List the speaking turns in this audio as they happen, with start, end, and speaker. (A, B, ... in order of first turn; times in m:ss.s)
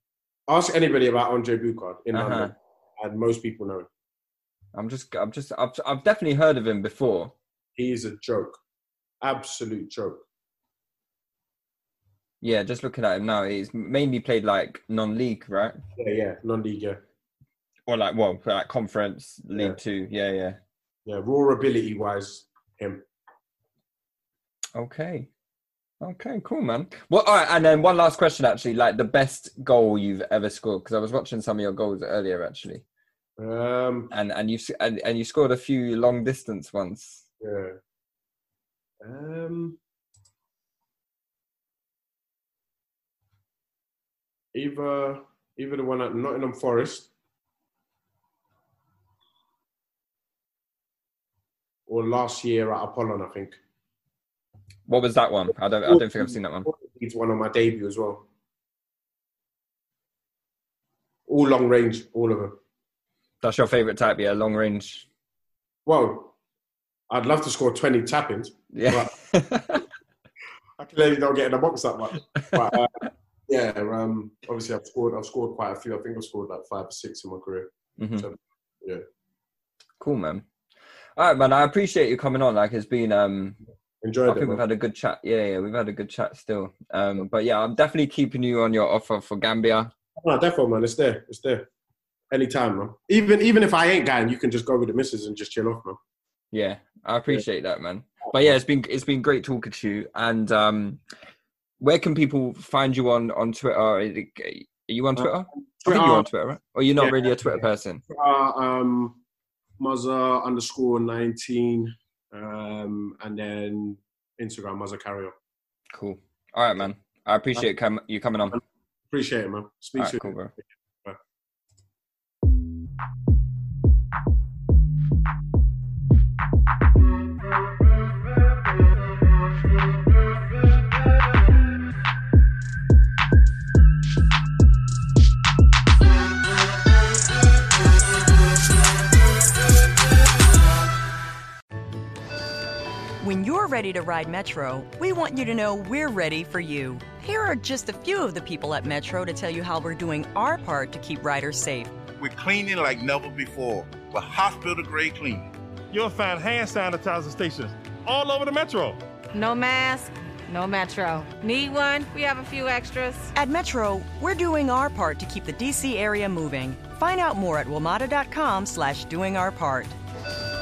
0:00.5-0:03.9 A
0:02.1-0:02.5 B
0:04.7-0:07.3 B
0:07.8-0:08.6 A
0:09.2-0:10.2 A
0:12.4-0:15.8 B
0:16.0-0:17.0 A
0:17.9-0:20.6 B
0:19.5-0:19.8 A
0:21.0-0:23.0 A
0:24.7-0:25.3 B
0:26.0-0:32.8 B
0:33.4-0:34.1 A
0:34.1-0:37.2 B
0:37.4-0:37.8 A
0:39.0-0:39.8 A
0:44.5-0:47.1 A
0:51.9-0:53.6 A
0:54.9-0:56.7 B
0:55.8-0:58.2 A
1:01.3-1:02.6 A
1:03.4-1:05.0 B
1:05.8-1:06.3 A
1:07.1-1:09.1 A
1:08.7-1:09.8 B
1:10.8-1:19.0 A
1:12.4-1:12.8 B
1:18.0-1:18.3 B
1:20.0-1:20.4 B
1:21.2-1:23.6 B
1:24.0-1:24.6 A
1:24.2-1:29.9 B
1:30.2-1:31.7 A
1:32.3-1:36.0 A
1:36.5-1:41.0 B
1:41.8-1:48.0 B
1:45.2-1:46.3 A
1:47.0-1:49.2 A
1:49.8-1:55.4 A
1:55.9-1:58.6 B
1:59.1-2:01.2 A
2:00.0-2:00.5 B
2:23.2-2:32.0 C
2:32.2-2:35.5 D
2:35.9-2:39.0 E
2:39.3-2:43.3 F
2:43.3-2:50.0 C